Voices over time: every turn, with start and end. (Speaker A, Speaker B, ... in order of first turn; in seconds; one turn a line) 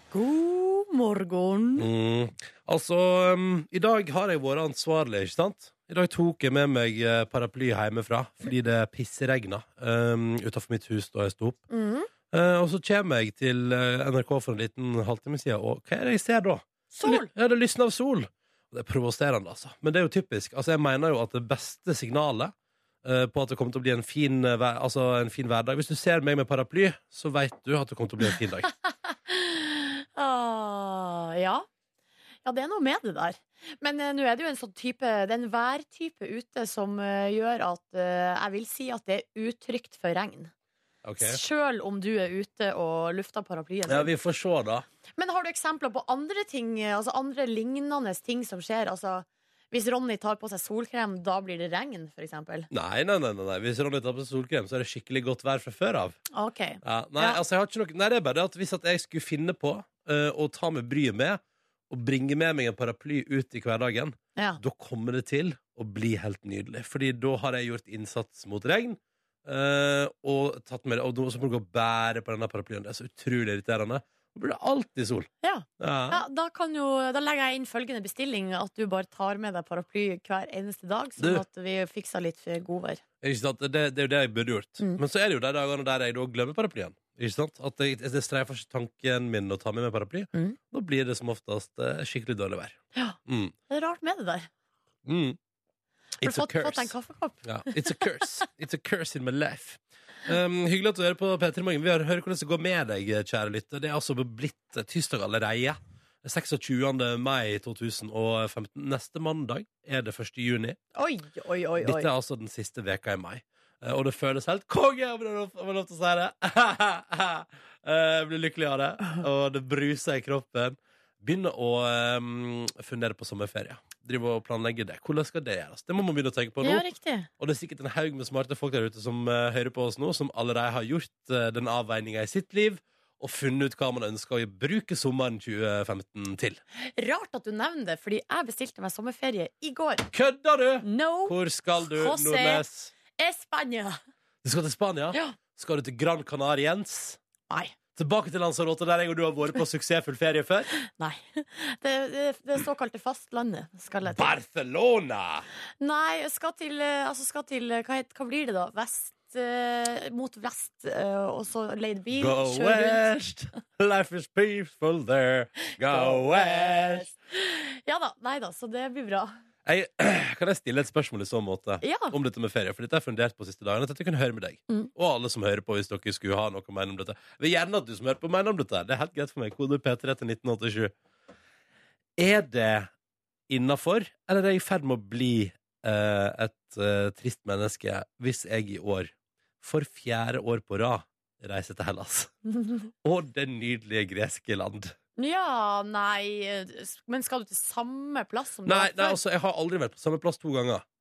Speaker A: 0.1-1.9
Speaker B: 1.8-11.6
Speaker A: 11.7-12.1
Speaker B: 12.3-28.7
Speaker A: 16.9-17.3
Speaker A: 29.1-31.6
Speaker A: 32.4-40.5
Speaker B: 41.0-41.4
Speaker A: 41.2-44.1
Speaker B: 43.9-44.8
Speaker A: 45.2-52.7
Speaker B: 52.7-56.2
Speaker A: 56.3-57.4
Speaker B: 56.8-76.2
Speaker A: 75.4-83.0
Speaker B: 83.2-93.5
Speaker A: 93.7-94.5
Speaker B: 95.0-95.4
Speaker B: 96.2-110.8
Speaker A: 96.2-98.1
Speaker A: 111.0-112.1
Speaker B: 111.8-126.8
Speaker A: 126.6-127.3
Speaker B: 127.4-136.6
Speaker A: 136.8-140.1
Speaker B: 140.1-142.9
Speaker A: 140.8-142.6
Speaker A: 143.2-144.0
Speaker B: 144.4-147.2
Speaker B: 147.9-150.7
Speaker A: 150.8-154.3
Speaker B: 154.0-155.4
Speaker A: 155.8-163.1
Speaker B: 162.2-167.1
Speaker A: 165.7-169.4
Speaker B: 169.6-180.9
Speaker A: 171.8-172.2
Speaker B: 182.2-182.9
Speaker B: 183.5-192.3
Speaker A: 192.5-192.8
Speaker B: 193.0-194.9
Speaker A: 195.2-199.2
Speaker B: 198.7-200.8